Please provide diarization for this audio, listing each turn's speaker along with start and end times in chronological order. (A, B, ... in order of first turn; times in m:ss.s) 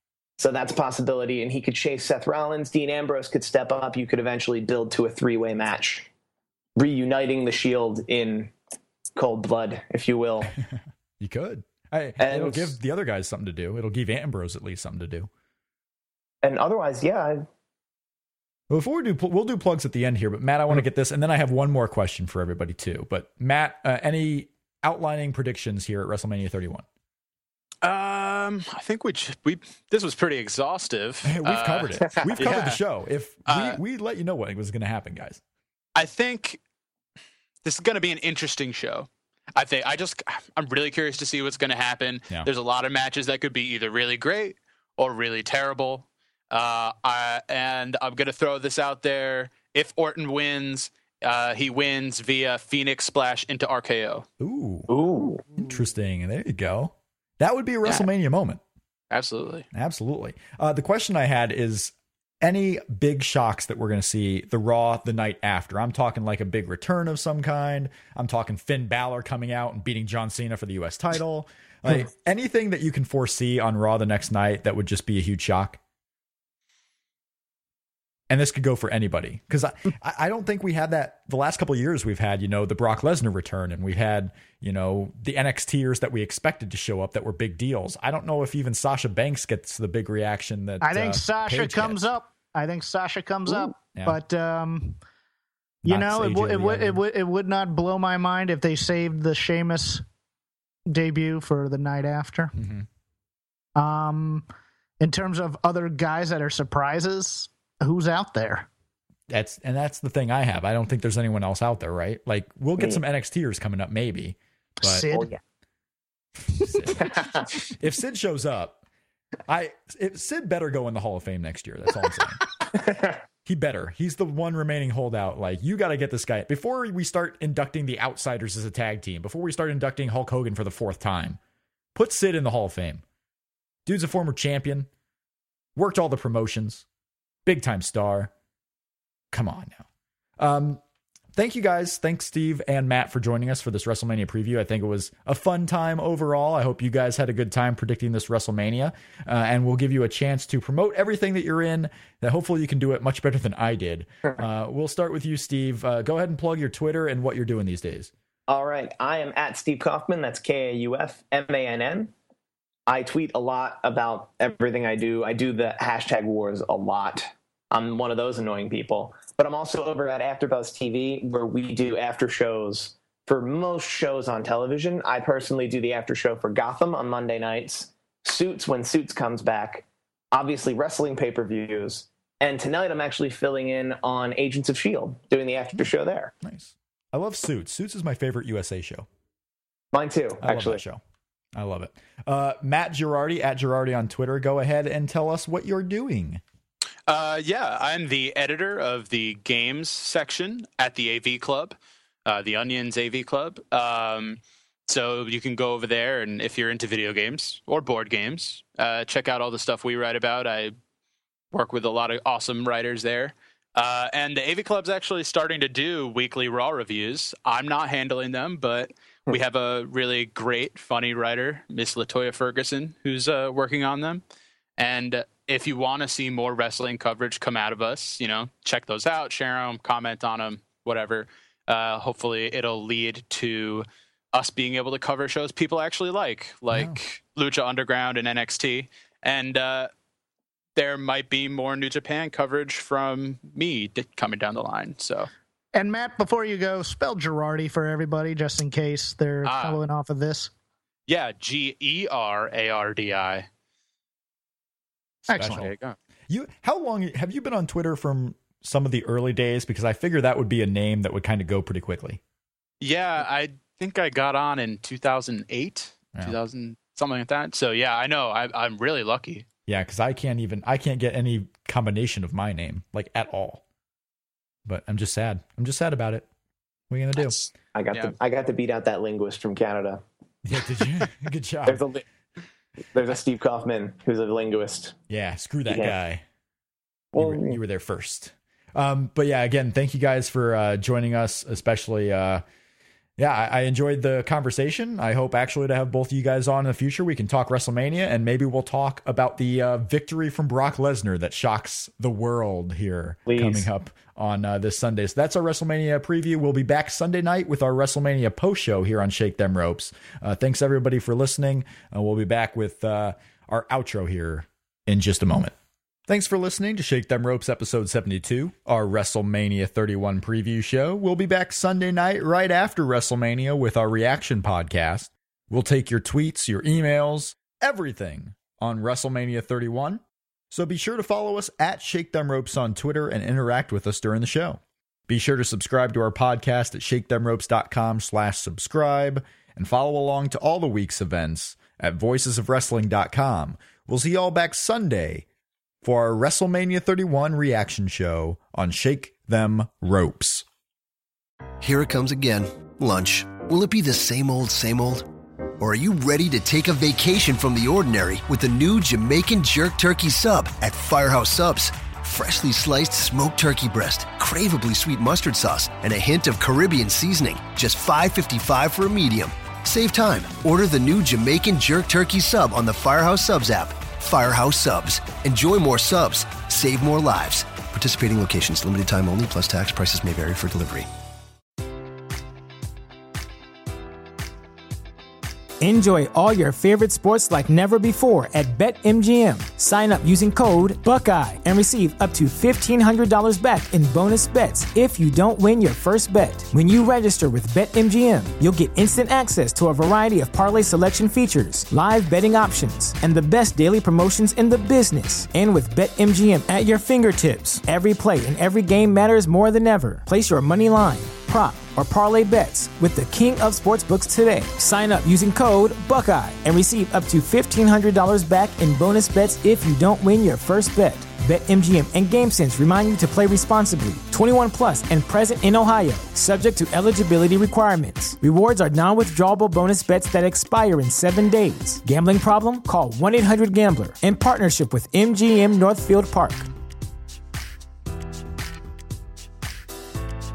0:00.4-0:06.1 A
0:06.8-0:08.5 A
0:09.2-0:10.5 A
0:11.2-0:15.3 B
0:12.2-0:12.8 A
0:16.4-0:17.5 A
0:18.7-0:26.9 B
0:27.8-0:32.8 C
0:31.2-0:35.4 B
0:33.5-0:33.8 C
0:36.0-0:36.6 C
0:37.6-0:54.3 C
0:54.4-0:54.9 B
0:54.9-0:55.4 A
0:55.5-0:58.6 B
0:59.1-0:59.7 C
0:59.7-1:15.8 B
1:18.3-1:32.1 B
1:30.8-1:35.0 D
1:35.8-1:37.0 B
1:35.8-1:40.0 D
1:40.9-1:42.6 D
1:42.6-1:42.9 B
1:43.8-1:44.5 D
1:45.0-1:48.7 D
1:49.3-1:55.1 B
1:54.8-1:55.4 D
1:56.5-1:58.8 B
1:57.0-1:57.6 A
1:59.5-2:02.5 B
2:02.7-2:03.2 A
2:03.4-2:11.4 B
2:12.0-2:13.0 B
2:13.9-2:14.9 B
2:15.8-2:16.8 B
2:17.5-2:18.3 B
2:19.3-2:19.8 B
2:20.4-2:20.8 B
2:21.4-2:38.1 B
2:38.5-2:42.1 A
2:42.9-3:06.3 A
3:06.4-3:09.1 B
3:09.9-3:10.8 A
3:10.4-3:11.0 B
3:11.5-3:16.4 B
3:17.1-3:21.8 C
3:22.3-3:30.7 C
3:31.5-3:44.2 C
3:44.8-3:59.9 C
3:56.7-3:57.0 B
4:00.8-4:05.3 C
4:05.7-4:10.5 D
4:09.4-4:09.8 C
4:11.1-4:13.5 C
4:15.3-4:15.6 D
4:15.3-4:15.7 B
4:15.4-4:16.0 C
4:16.3-4:22.2 B
4:22.8-4:29.5 C
4:29.7-4:33.6 B
4:34.7-4:36.3 B
4:36.9-4:37.5 B
4:37.2-4:38.1 C
4:37.8-4:40.0 A
4:40.4-4:41.8 B
4:41.7-4:42.0 A
4:42.9-4:45.0 A
4:45.1-4:46.2 B
4:45.7-4:46.0 A
4:47.1-4:47.6 A
4:47.2-4:52.4 B
4:53.2-5:15.6 B
5:03.3-5:03.7 A
5:16.1-5:45.3 B
5:45.8-5:50.4 B
5:51.6-5:55.0 E
5:55.6-6:20.9 E
6:25.6-7:16.5 F